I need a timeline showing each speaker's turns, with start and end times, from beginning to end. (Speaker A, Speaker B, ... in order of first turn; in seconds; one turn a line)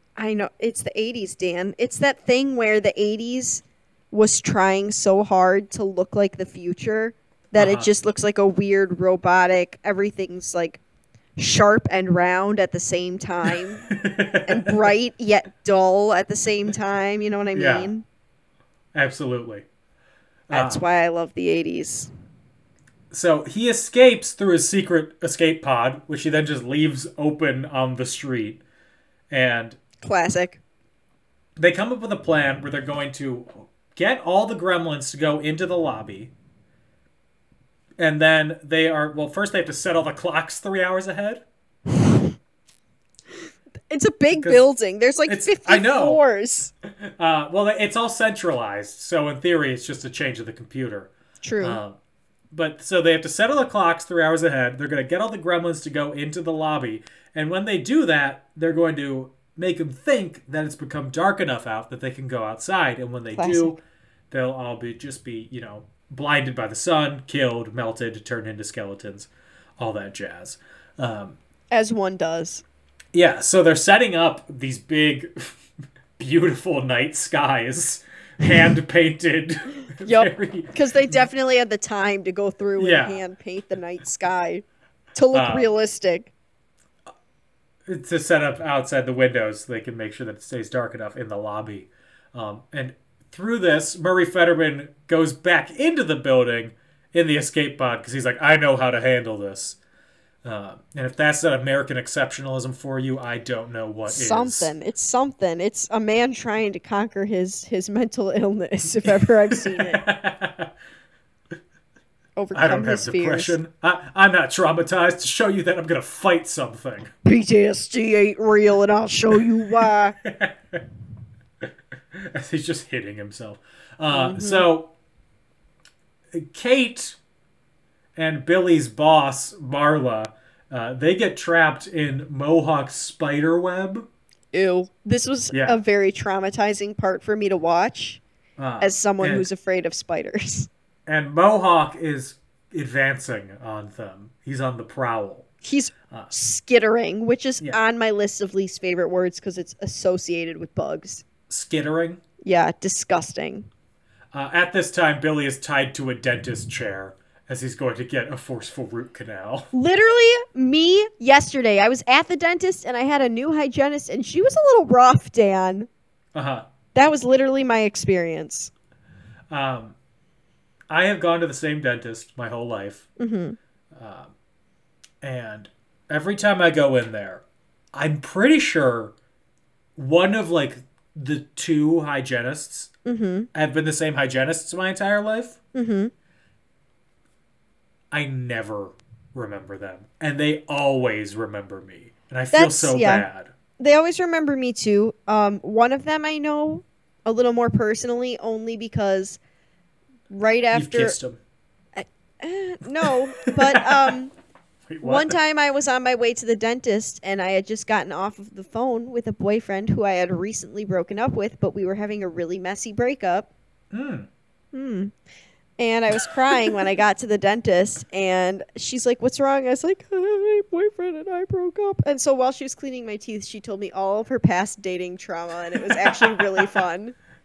Speaker A: 0.2-10.8
Speaker B: 7.5-7.9
Speaker A: 11.4-13.9
Speaker B: 13.9-14.9
Speaker A: 14.4-18.0
Speaker B: 17.5-17.9
Speaker B: 18.9-19.6
Speaker B: 20.5-20.8
Speaker A: 20.5-22.1
Speaker B: 23.1-28.6
Speaker B: 29.3-29.8
Speaker A: 30.0-30.6
Speaker B: 31.6-36.3
Speaker B: 38.0-41.4
Speaker A: 41.9-42.2
Speaker A: 43.9-46.7
Speaker B: 44.3-44.6
Speaker B: 45.3-46.2
Speaker B: 47.0-52.0
Speaker A: 51.4-51.8
Speaker B: 52.5-63.8
Speaker A: 63.3-63.8
Speaker B: 64.3-71.4
Speaker A: 71.7-72.6
Speaker B: 73.1-75.5
Speaker B: 76.2-80.7
Speaker A: 80.0-86.3
Speaker B: 82.8-83.2
Speaker B: 85.3-85.7
Speaker B: 87.8-99.8
Speaker B: 100.4-104.7
Speaker A: 104.1-110.0
Speaker B: 109.0-110.7
Speaker A: 112.4-113.6
Speaker B: 112.5-117.1
Speaker A: 117.2-120.2
Speaker B: 119.8-120.8
Speaker B: 121.6-124.9
Speaker A: 124.1-124.7
Speaker B: 126.3-127.2
Speaker B: 128.2-134.1
Speaker A: 134.5-138.2
Speaker B: 135.5-135.8
Speaker B: 138.6-139.5
Speaker A: 138.8-140.7
Speaker B: 141.1-145.5
Speaker A: 145.6-151.2
Speaker B: 151.5-152.2
Speaker A: 152.4-153.7
Speaker B: 154.3-159.7
Speaker A: 159.7-165.9
Speaker B: 166.3-166.7
Speaker A: 166.9-168.7
Speaker B: 169.5-169.9
Speaker B: 170.9-173.1
Speaker A: 173.2-173.6
Speaker B: 173.9-174.3
Speaker B: 175.2-177.4
Speaker B: 177.9-179.1
Speaker B: 179.9-182.9
Speaker A: 183.0-183.5
Speaker B: 183.5-185.6
Speaker A: 185.7-186.1
Speaker B: 188.1-193.5
Speaker A: 192.5-193.2
Speaker A: 193.8-199.4
Speaker A: 200.3-201.2
Speaker B: 200.7-201.4
Speaker A: 201.9-204.3
Speaker B: 203.0-204.1
Speaker B: 204.9-205.4
Speaker A: 205.0-213.5
Speaker B: 213.9-214.3
Speaker A: 214.7-215.1
Speaker A: 215.8-227.2
Speaker B: 225.8-226.7